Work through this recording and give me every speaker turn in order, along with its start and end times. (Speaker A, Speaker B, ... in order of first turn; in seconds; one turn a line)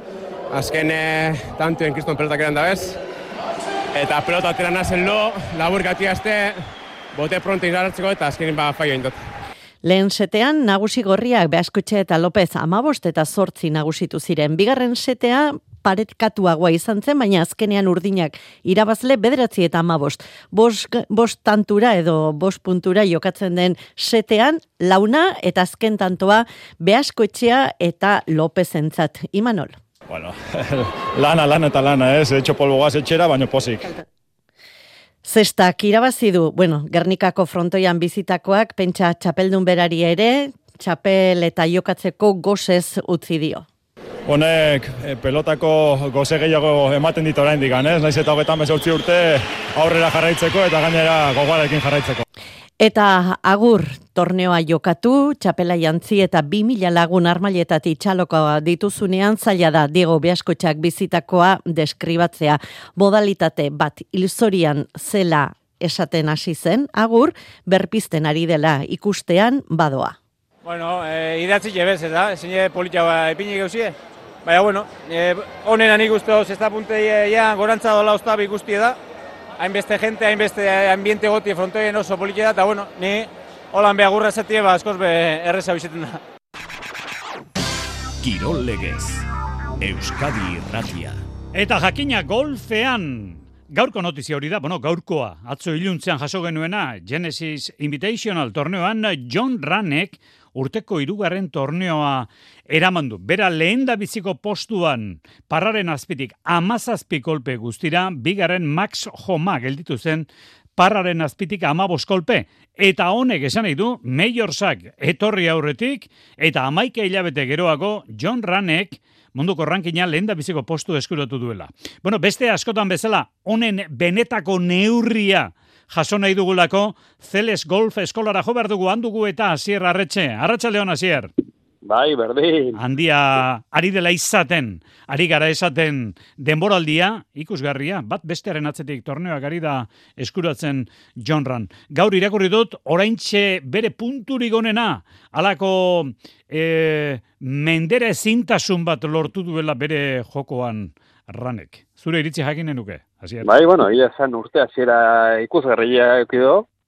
Speaker A: 0.5-3.0
Speaker A: 3.9-9.3
Speaker B: 9.8-29.8
Speaker C: 30.1-33.9
Speaker B: 35.2-43.7
Speaker C: 44.3-52.2
Speaker B: 52.8-70.2
Speaker D: 70.7-79.0
Speaker D: 79.6-86.2
Speaker E: 88.2-89.2
Speaker E: 89.8-91.2
Speaker F: 91.5-131.3
Speaker G: 131.8-132.8
Speaker F: 132.8-153.5
Speaker G: 153.4-156.7